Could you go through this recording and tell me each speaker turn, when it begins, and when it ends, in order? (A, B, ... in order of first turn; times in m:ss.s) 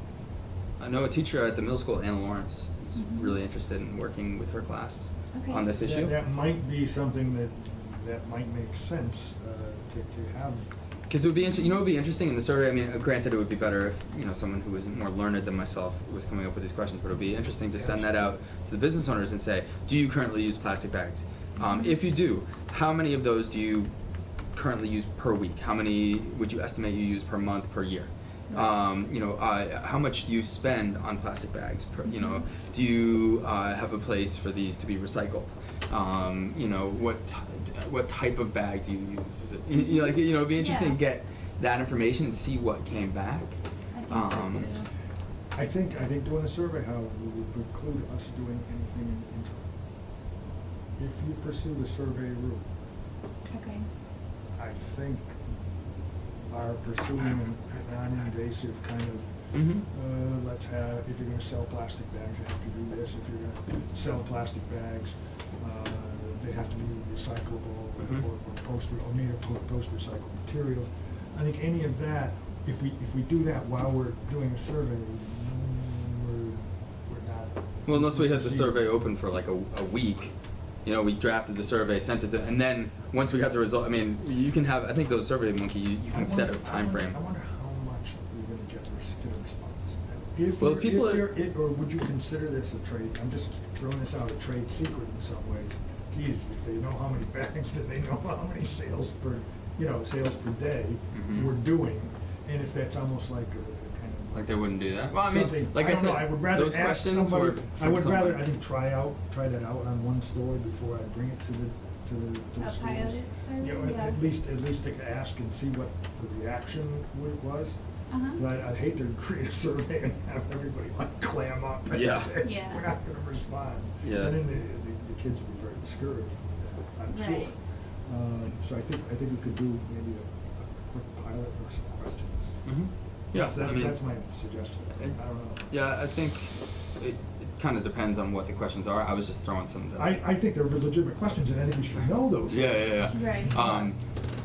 0:00.8-0:06.2 A
0:02.9-0:03.3 B
0:05.3-0:05.6 B
0:05.8-0:10.7 C
0:11.1-0:23.9 A
0:17.7-0:18.4 C
0:21.6-0:21.9 B
0:24.5-0:44.7 A
0:32.1-0:32.4 B
0:40.5-0:41.0 B
0:43.9-0:44.9 B
0:45.5-0:49.7 C
0:51.0-0:52.6 C
0:53.4-0:53.9 B
0:54.5-0:55.5 C
0:56.4-1:18.8 C
0:59.5-0:59.8 A
1:08.0-1:08.2 A
1:17.8-1:27.2 A
1:26.1-1:44.6 C
1:30.6-1:31.3 A
1:41.1-1:41.5 A
1:44.3-1:48.5 A
1:45.1-2:12.6 C
1:52.6-1:54.2 B
1:58.1-1:58.4 B
2:01.9-2:02.4 A
2:02.4-2:02.9 B
2:04.0-2:04.4 A
2:07.1-2:07.6 B
2:12.6-2:14.0 A
2:13.3-2:15.8 C
2:15.0-2:20.2 A
2:20.0-2:23.9 C
2:22.5-2:24.0 A
2:23.1-2:23.6 B